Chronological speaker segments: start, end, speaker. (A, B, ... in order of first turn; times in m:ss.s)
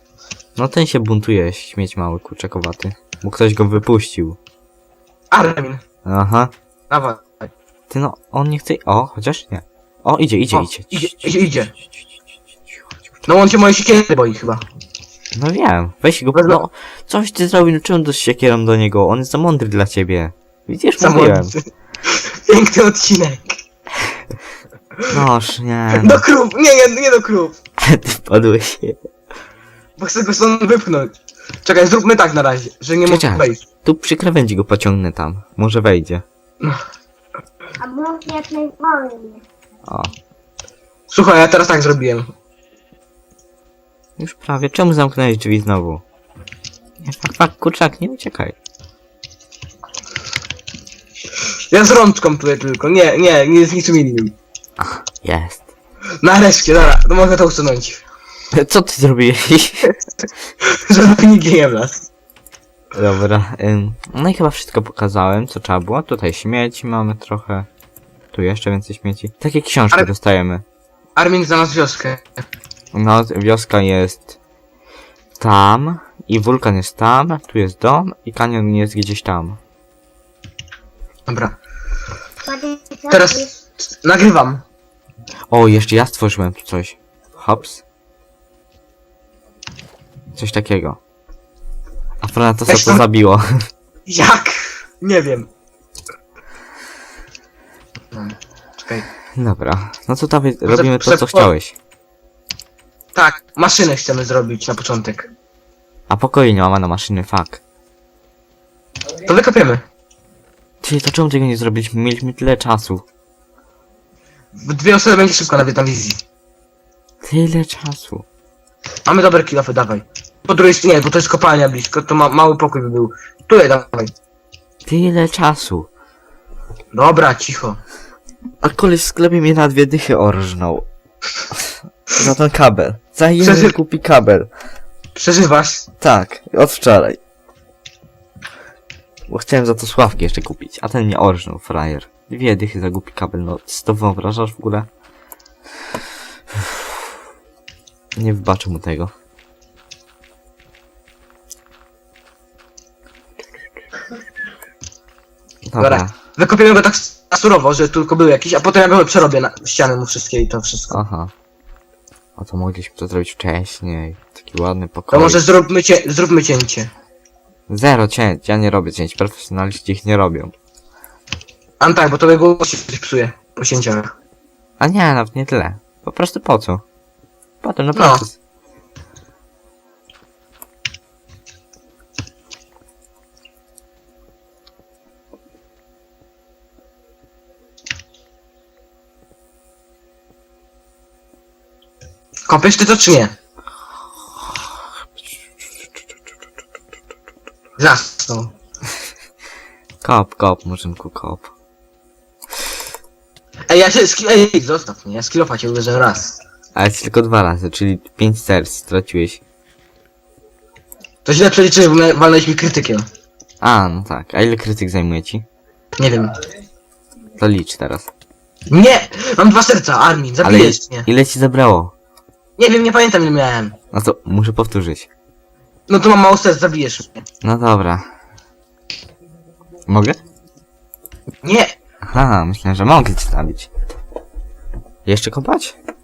0:00.6-0:04.4 A
0:05.3-0:05.8 B
0:06.0-0:06.5 A
0:06.9-0:07.5 B
0:07.9-0:12.9 A
0:10.5-0:11.7 B
0:13.3-0:14.6 B
0:15.3-0:21.5 A
0:16.3-0:16.6 B
0:21.0-0:23.6 B
0:25.1-0:26.2 A
0:25.9-0:27.6 B
0:27.8-0:29.1 A
0:30.0-0:33.6 B
0:33.0-0:36.2 A
0:37.8-0:39.4 C
0:39.8-0:40.1 A
0:41.1-0:42.3 B
0:44.2-0:46.0 A
0:47.0-0:48.6 A
0:51.7-0:54.4 B
0:54.8-0:55.7 A
0:56.2-0:58.0 B
0:58.5-1:00.0 A
1:00.6-1:02.1 B
1:02.9-1:07.7 A
1:08.3-1:10.6 A
1:11.2-1:12.3 B
1:12.9-1:14.4 A
1:15.4-1:19.6 A
1:21.3-1:21.6 B
1:22.4-1:23.5 C
1:23.1-1:24.6 B
1:25.5-1:27.8 A
1:30.4-1:31.0 A
1:32.2-1:33.7 A
1:32.7-1:33.0 B
1:34.1-1:35.5 B
1:38.1-1:39.1 B
1:39.3-1:41.8 A
1:40.7-1:41.5 B
1:43.1-1:45.3 B
1:46.1-1:47.6 A
1:49.3-1:49.8 B
1:50.8-1:53.0 A
1:54.5-1:56.2 B
1:57.2-1:58.3 A
1:59.1-2:04.1 B
2:04.8-2:05.9 A
2:06.9-2:07.8 B
2:08.6-2:10.9 A
2:11.5-2:14.5 A
2:13.4-2:13.7 B
2:15.2-2:15.9 B
2:16.0-2:17.2 A
2:19.3-2:24.9 A
2:26.5-2:27.1 A
2:28.2-2:29.1 A
2:35.6-2:36.1 A
2:35.8-2:41.0 B
2:40.9-2:41.3 A
2:42.4-2:45.5 A
2:45.1-2:46.9 B
2:47.7-2:50.5 A
2:51.8-2:54.1 B
2:54.8-2:56.8 A
2:57.6-2:58.4 A
2:57.9-2:58.2 B
3:12.5-3:13.4 B
3:17.8-3:18.5 B
3:20.0-3:21.5 A
3:23.7-3:26.4 B
3:26.8-3:29.4 A
3:31.2-3:33.1 B
3:33.6-3:35.5 A
3:36.0-3:36.4 B
3:37.4-3:38.1 A
3:38.7-3:41.1 B
3:40.4-3:41.9 A
3:42.6-3:43.8 B
3:43.9-3:45.1 A
3:45.9-3:47.2 B
3:47.4-3:48.1 A
3:49.9-3:50.2 A
3:51.4-3:51.7 B
3:52.0-3:53.7 A
3:55.1-3:55.8 A